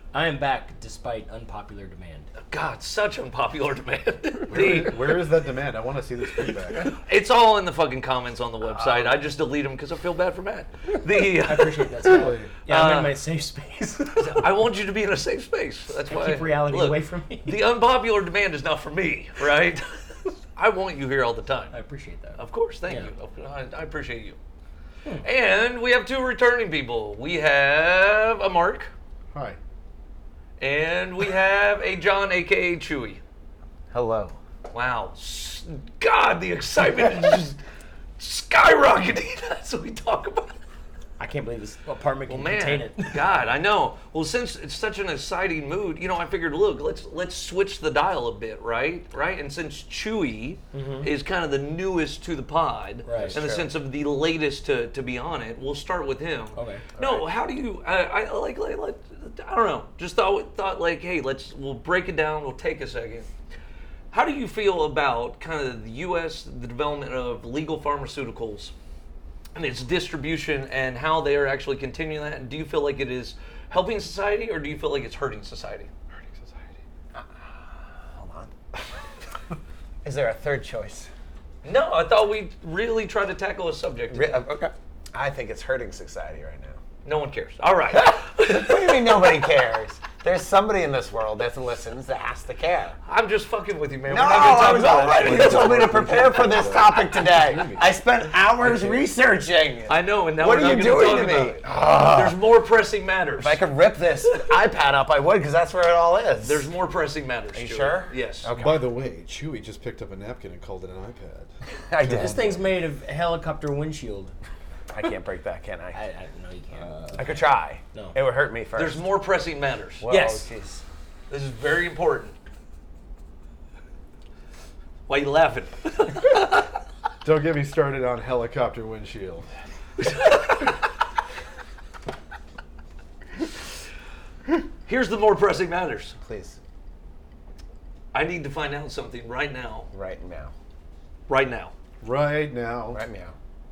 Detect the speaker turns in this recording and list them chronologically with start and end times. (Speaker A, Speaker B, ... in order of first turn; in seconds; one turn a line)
Speaker A: 0.1-2.3
Speaker B: 2.5-5.3
Speaker C: 4.5-7.0
Speaker B: 6.5-13.2
Speaker C: 8.8-9.1
Speaker A: 11.4-14.4
Speaker C: 12.0-12.5
Speaker B: 14.2-19.9
Speaker A: 16.1-17.6
Speaker B: 20.6-21.7
Speaker A: 21.7-23.1
Speaker B: 22.4-24.4
Speaker B: 25.2-28.9
Speaker C: 29.3-29.6
Speaker B: 30.6-33.2
Speaker D: 33.9-34.4
Speaker B: 34.7-37.6
Speaker B: 38.2-40.6
Speaker A: 41.2-43.2
Speaker B: 42.3-63.3
Speaker A: 50.7-51.1
Speaker A: 53.0-53.4
Speaker D: 53.1-53.7
Speaker A: 56.6-56.8
Speaker B: 64.1-68.7
Speaker B: 69.5-75.9
Speaker C: 76.1-76.8
Speaker D: 77.1-78.5
Speaker D: 80.0-81.1
Speaker B: 81.6-84.4
Speaker D: 84.1-86.8
Speaker B: 87.0-89.4
Speaker D: 87.9-93.0
Speaker B: 93.1-96.2
Speaker D: 94.1-102.4
Speaker C: 94.4-97.9
Speaker C: 98.6-99.0
Speaker B: 99.9-103.6
Speaker D: 103.4-106.7
Speaker B: 106.4-108.5
Speaker D: 107.5-108.9
Speaker C: 108.5-111.5
Speaker D: 111.7-112.5
Speaker C: 112.0-112.6
Speaker A: 112.2-114.3
Speaker D: 114.9-116.0
Speaker A: 115.9-118.2
Speaker D: 117.2-119.0
Speaker B: 118.8-120.0
Speaker D: 120.0-120.8
Speaker A: 120.1-120.5
Speaker B: 121.3-122.3
Speaker B: 125.1-126.7
Speaker C: 127.2-129.5
Speaker B: 130.0-130.6
Speaker B: 134.9-136.2
Speaker D: 136.2-136.6
Speaker B: 138.1-139.9
Speaker D: 139.9-140.5
Speaker B: 141.3-141.7
Speaker C: 142.0-143.0
Speaker D: 142.9-143.3